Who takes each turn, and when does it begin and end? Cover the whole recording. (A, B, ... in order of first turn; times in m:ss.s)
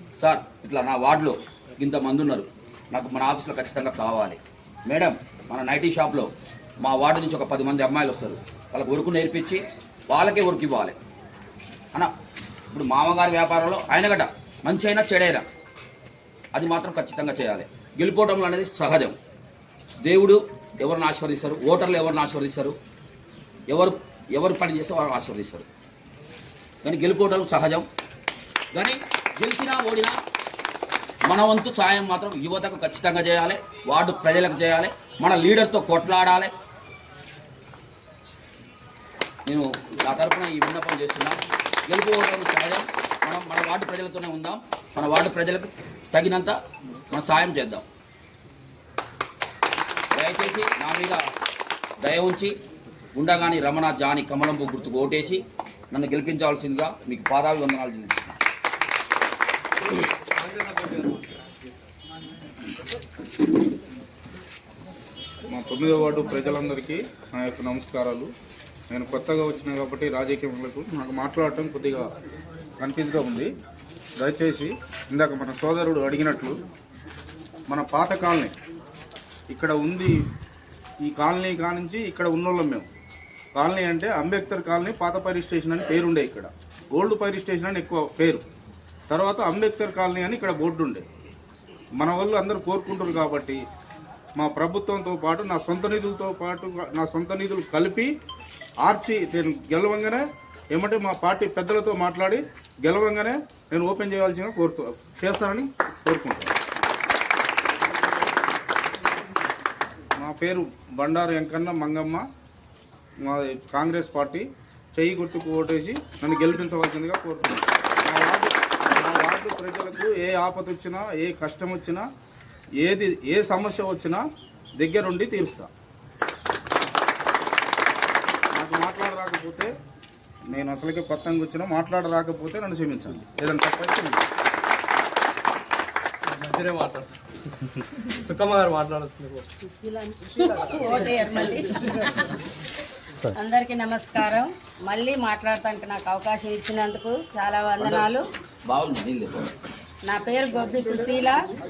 0:00.2-0:06.3 A
0:06.8-0:11.0 A
0:12.7-0:15.4 A
0:16.5-0:19.2 A
0:20.0-0:22.8 A
0:23.7-0:25.6 A
0:26.8-0:27.8 A
0:28.7-0:30.2 A
0:31.3-0:36.5 A
0:39.4-0:46.6 A
0:47.1-0:47.8 A
0:50.2-0:51.2 A
0:52.0-0:52.5 A
0:53.2-0:58.3 A
1:00.4-1:01.5 B
1:05.5-1:08.3 C
1:08.9-1:12.1 C
1:12.8-1:13.5 C
1:14.2-1:16.6 C
1:17.7-1:18.5 C
1:19.5-1:20.2 C
1:21.0-1:22.9 C
1:23.5-1:28.4 C
1:29.1-1:31.0 C
1:32.0-1:33.6 C
1:34.4-1:38.1 C
1:38.8-1:46.5 C
1:50.2-1:52.2 C
1:53.2-2:02.0 C
2:02.8-2:04.2 C
2:04.8-2:05.7 C
2:08.5-2:09.7 C
2:10.5-2:14.2 C
2:16.3-2:17.1 B
2:18.2-2:19.4 B
2:19.8-2:22.1 D
2:23.3-2:28.2 D
2:28.7-2:29.5 A
2:30.1-2:31.4 D